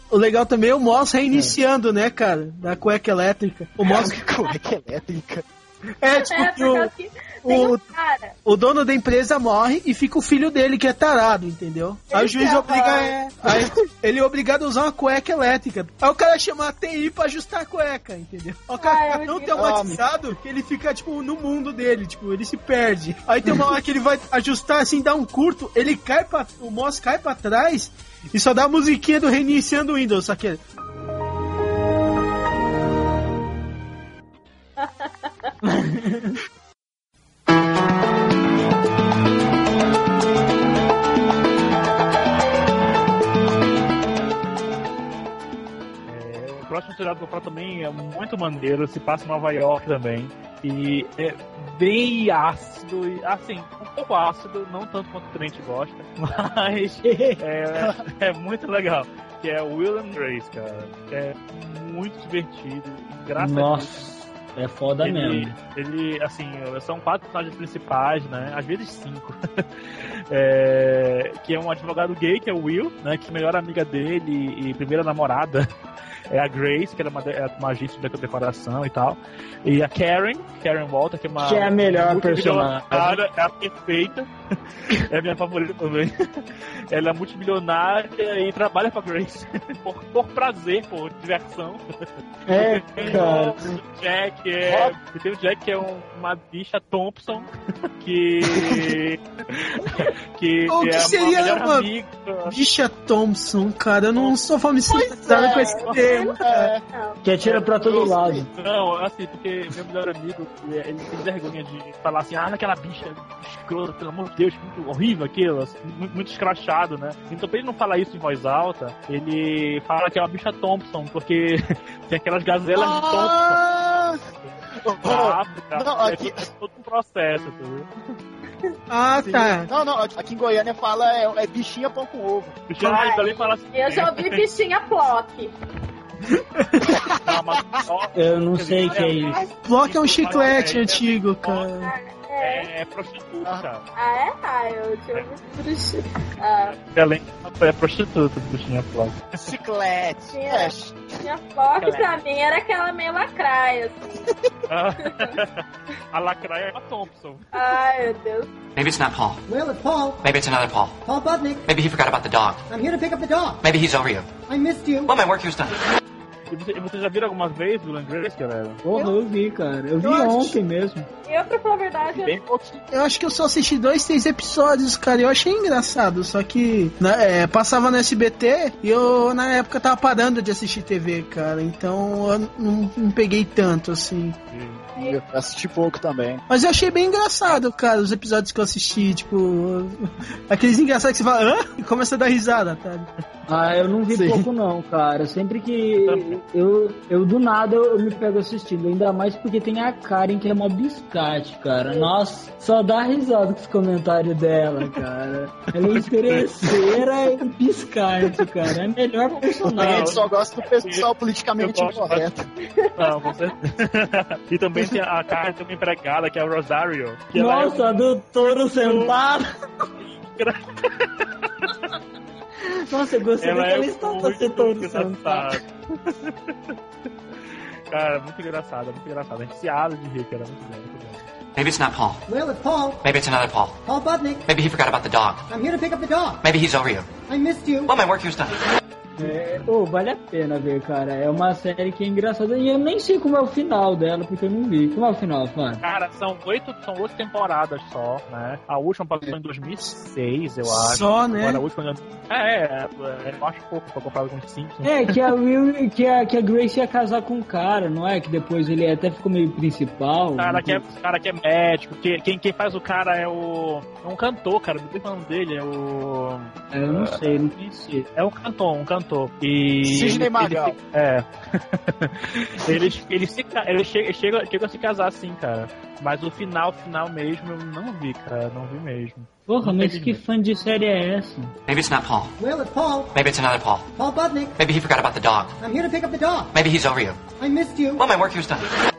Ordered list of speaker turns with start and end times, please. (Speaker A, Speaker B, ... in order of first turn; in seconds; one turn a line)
Speaker A: 0.1-4.2
Speaker B: 3.9-5.5
Speaker A: 6.0-6.9
Speaker C: 6.1-8.3
Speaker A: 7.5-7.8
Speaker A: 8.4-30.6
Speaker C: 12.1-13.1
Speaker B: 13.4-13.8
Speaker C: 18.8-19.8
Speaker B: 19.5-20.0
Speaker C: 34.8-35.5
Speaker D: 35.6-36.4
Speaker E: 46.1-64.1
Speaker D: 57.0-57.4
Speaker D: 63.4-65.6
Speaker E: 65.0-75.7
Speaker E: 76.3-84.3
Speaker D: 81.4-83.2
Speaker E: 84.9-91.8
Speaker D: 92.5-93.5
Speaker E: 92.5-97.5
Speaker B: 94.7-94.9
Speaker E: 98.0-102.5
Speaker A: 100.7-101.9
Speaker A: 102.5-106.7
Speaker B: 104.9-106.8
Speaker C: 105.1-106.3
Speaker C: 106.9-107.2
Speaker D: 107.2-108.5
Speaker B: 107.8-108.5
Speaker E: 108.5-123.6
Speaker B: 122.8-124.2
Speaker B: 124.8-126.5
Speaker E: 125.0-127.9
Speaker A: 128.9-129.7
Speaker B: 129.2-132.7
Speaker E: 132.7-134.5
Speaker C: 132.8-135.6
Speaker A: 136.6-137.0
Speaker B: 136.9-137.6
Speaker E: 137.1-141.7
Speaker D: 138.2-139.4
Speaker A: 139.6-141.9
Speaker C: 141.8-142.7
Speaker E: 142.4-143.8
Speaker C: 144.0-146.8
Speaker E: 146.7-149.3
Speaker B: 149.4-151.1
Speaker C: 150.3-154.3
Speaker B: 151.8-152.1
Speaker E: 154.7-157.4
Speaker C: 157.5-158.5
Speaker F: 158.8-159.4
Speaker G: 159.5-160.2
Speaker F: 160.2-161.0
Speaker G: 161.1-161.6
Speaker F: 161.7-162.7
Speaker G: 162.7-163.6
Speaker F: 163.6-164.3
Speaker G: 164.5-165.1
Speaker F: 165.1-165.8
Speaker E: 166.5-168.8
Speaker D: 168.8-171.1
Speaker A: 170.0-170.6
Speaker C: 171.2-172.4
Speaker B: 172.1-172.8
Speaker A: 172.9-184.4
Speaker E: 184.5-184.8
Speaker B: 185.0-186.4
Speaker A: 186.5-193.1
Speaker D: 193.5-210.2
Speaker B: 194.1-194.4
Speaker E: 196.0-196.4
Speaker E: 205.9-206.4
Speaker C: 209.4-209.6
Speaker B: 209.6-212.5
Speaker E: 209.8-210.2
Speaker E: 210.8-211.1
Speaker E: 211.6-212.3
Speaker C: 212.6-213.3
Speaker E: 213.0-219.2
Speaker D: 217.3-219.5
Speaker E: 220.0-221.8
Speaker D: 222.9-225.6
Speaker E: 223.4-226.8
Speaker E: 227.5-231.2
Speaker F: 231.6-232.2
Speaker G: 232.3-233.1
Speaker F: 233.0-233.8
Speaker G: 233.8-234.4
Speaker F: 234.5-235.5
Speaker G: 235.5-236.4
Speaker F: 236.4-237.1
Speaker G: 237.3-237.9
Speaker F: 237.9-238.6
Speaker D: 239.2-245.8
Speaker E: 245.8-255.3
Speaker A: 250.7-251.6
Speaker D: 254.8-260.8
Speaker E: 260.4-280.2
Speaker D: 266.7-268.1
Speaker B: 269.8-270.8
Speaker D: 279.5-281.6
Speaker F: 281.7-282.4
Speaker G: 282.4-283.1
Speaker F: 283.1-283.9
Speaker G: 283.9-284.6
Speaker F: 284.6-285.6
Speaker G: 285.6-286.5
Speaker F: 286.5-287.2
Speaker G: 287.4-288.0
Speaker F: 288.0-288.7